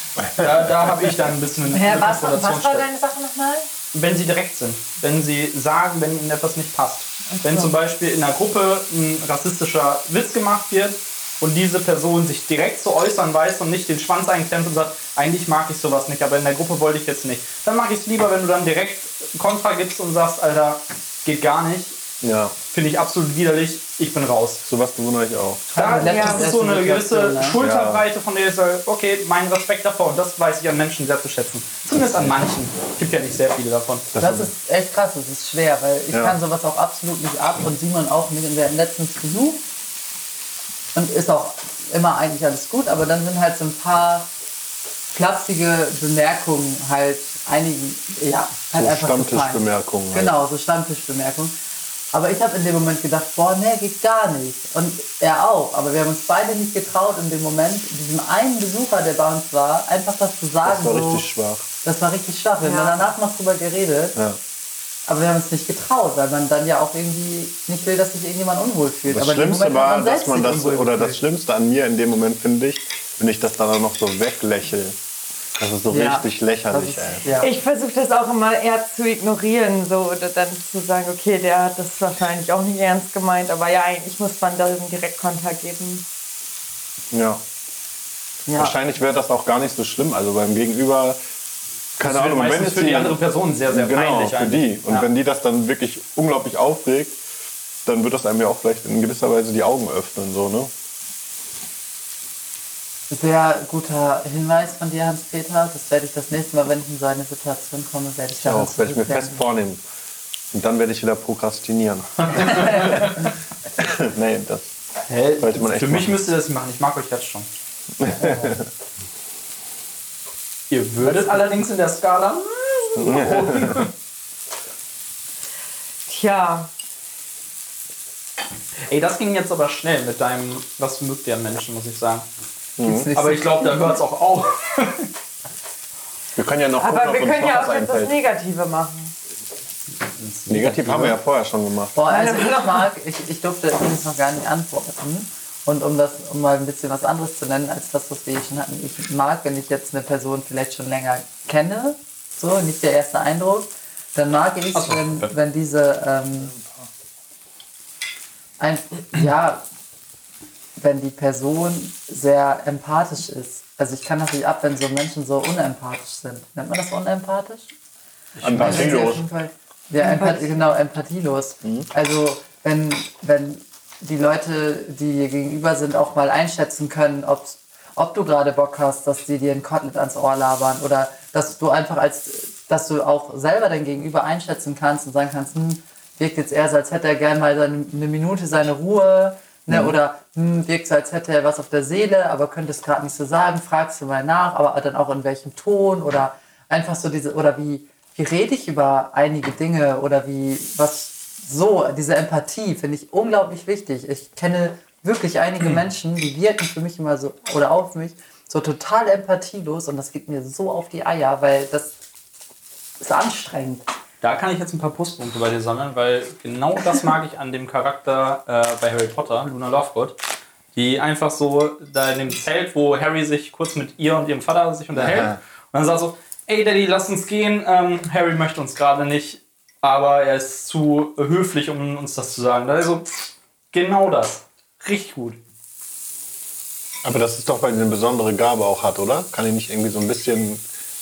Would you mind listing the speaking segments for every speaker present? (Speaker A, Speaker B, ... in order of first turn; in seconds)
Speaker A: 0.2-0.9, 22.2-22.6, 24.6-25.7, 27.6-28.0, 34.1-34.5, 48.7-50.3, 60.6-61.6, 69.1-75.0, 75.6-77.2, 87.1-87.4, 88.6-91.2, 92.0-93.2, 93.7-97.2, 97.8-100.7, 108.4-109.8, 110.5-114.7, 115.4-116.2, 118.0-118.7, 123.0-123.9, 132.8-133.1, 136.4-138.2, 140.5-142.0, 168.4-169.2, 225.0-225.3, 237.0-240.6
Speaker B: 0.4-2.9, 3.9-22.0, 22.7-24.6, 25.7-34.1, 92.0-95.1, 112.2-113.3, 115.1-117.5, 120.7-123.9, 128.9-132.3, 133.1-135.1, 140.1-141.2, 154.7-155.3, 168.4-169.1, 214.2-220.2, 220.7-233.2, 233.7-235.4
Speaker C: 1.7-3.7, 7.3-7.7, 26.0-26.5, 62.6-63.1, 77.4-86.0, 126.1-126.7, 136.8-139.1, 142.1-142.9, 170.0-170.6
Speaker D: 25.7-27.6, 34.2-39.6, 40.9-44.3, 45.1-51.5, 52.1-61.3, 61.8-64.2, 65.1-71.2, 75.9-77.5, 88.5-88.8, 103.1-109.4, 118.2-118.5, 132.8-134.0, 141.9-156.5, 158.6-159.7, 160.8-167.7, 168.5-211.9, 213.0-213.8